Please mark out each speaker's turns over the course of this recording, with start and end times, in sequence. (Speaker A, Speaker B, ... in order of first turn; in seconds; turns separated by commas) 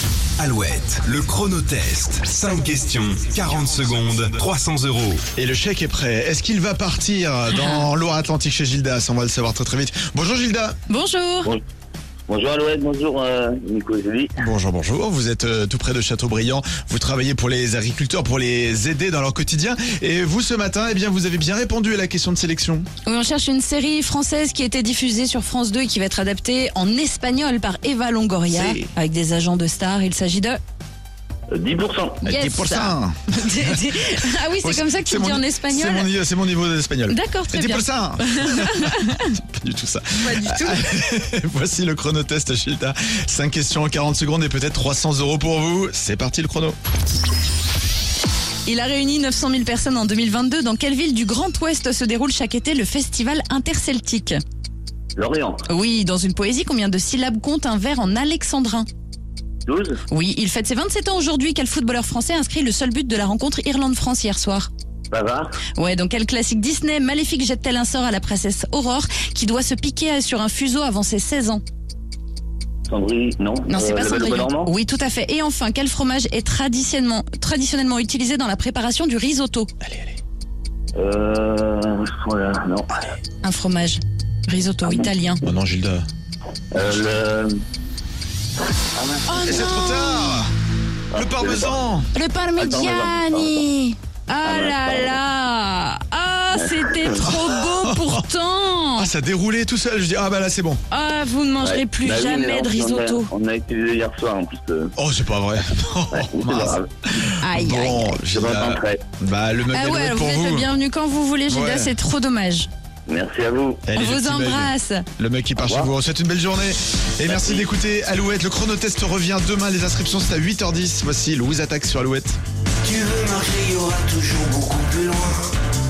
Speaker A: 0.4-5.2, Speaker B: 5.4-10.8, Speaker C: 7.5-7.9, Speaker C: 10.9-11.5, Speaker D: 12.3-14.4, Speaker B: 14.4-22.9, Speaker C: 23.1-30.6, Speaker B: 28.5-28.9, Speaker D: 31.5-32.2, Speaker B: 32.2-46.8, Speaker C: 32.2-36.1, Speaker C: 37.1-39.3, Speaker C: 40.2-40.8, Speaker C: 48.7-54.4, Speaker D: 55.2-55.6, Speaker C: 55.7-58.9, Speaker D: 59.7-60.0, Speaker C: 60.1-64.7, Speaker D: 65.1-65.6, Speaker C: 65.8-71.6, Speaker D: 72.9-74.7, Speaker C: 73.7-79.7, Speaker B: 79.8-80.2, Speaker D: 81.0-83.2, Speaker C: 83.4-85.4, Speaker B: 85.4-86.1, Speaker D: 86.7-87.6, Speaker D: 88.8-89.7, Speaker C: 89.3-90.4, Speaker B: 89.4-90.5, Speaker D: 91.1-91.8, Speaker B: 91.1-92.1, Speaker C: 92.1-99.1, Speaker D: 92.6-93.7, Speaker D: 94.4-95.2, Speaker D: 96.6-97.2, Speaker B: 97.4-98.2, Speaker B: 99.0-100.8, Speaker C: 100.9-103.3, Speaker D: 101.6-104.9, Speaker B: 105.0-110.7, Speaker D: 106.1-106.9, Speaker C: 107.4-108.2, Speaker D: 108.3-109.0, Speaker C: 109.7-112.7, Speaker B: 111.5-111.9, Speaker D: 113.1-113.8, Speaker B: 113.9-122.4, Speaker C: 114.0-115.1, Speaker D: 115.6-115.9, Speaker D: 117.3-117.7, Speaker E: 122.8-125.5